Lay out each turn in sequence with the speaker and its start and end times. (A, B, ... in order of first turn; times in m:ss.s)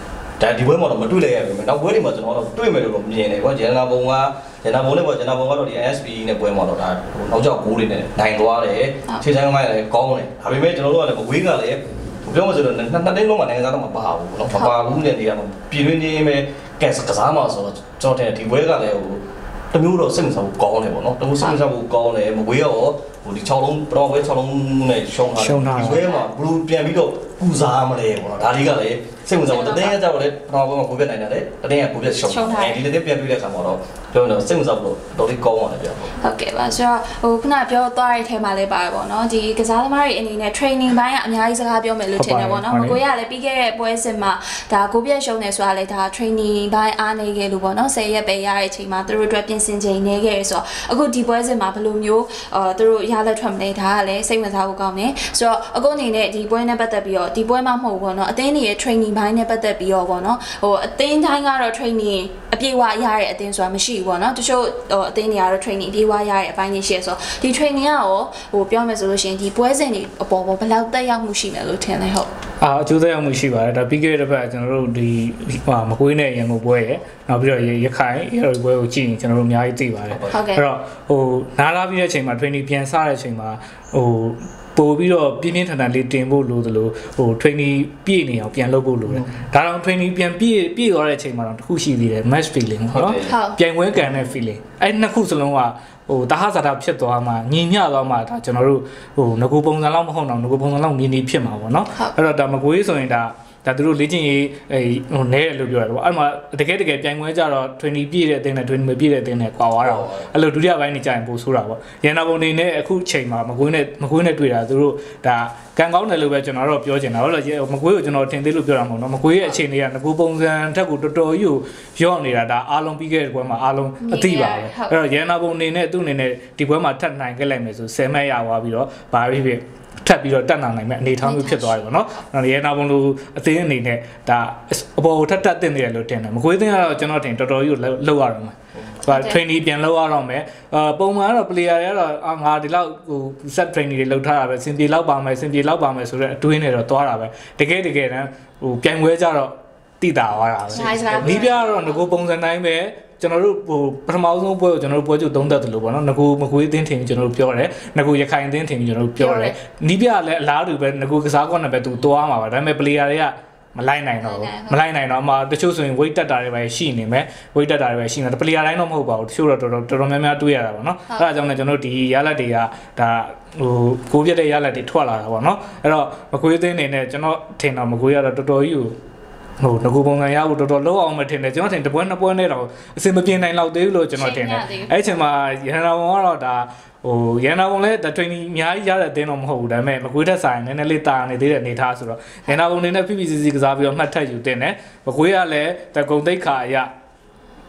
0:00.4-0:36.2 A
0:25.4-0:26.0 B
0:29.5-0:30.0 C
0:32.2-0:32.8 C
0:36.2-1:12.3 C
0:42.2-0:43.0 B
1:12.6-2:58.9 B
1:20.3-1:20.7 C
1:32.9-1:33.3 A
1:33.2-1:33.6 C
1:49.8-1:50.3 A
2:04.0-2:05.0 C
2:11.2-2:11.9 C
2:19.1-2:19.4 C
2:30.7-2:32.1 C
2:39.2-2:39.6 C
2:44.2-2:44.8 C
2:59.6-3:16.9 B
3:04.2-3:05.0 C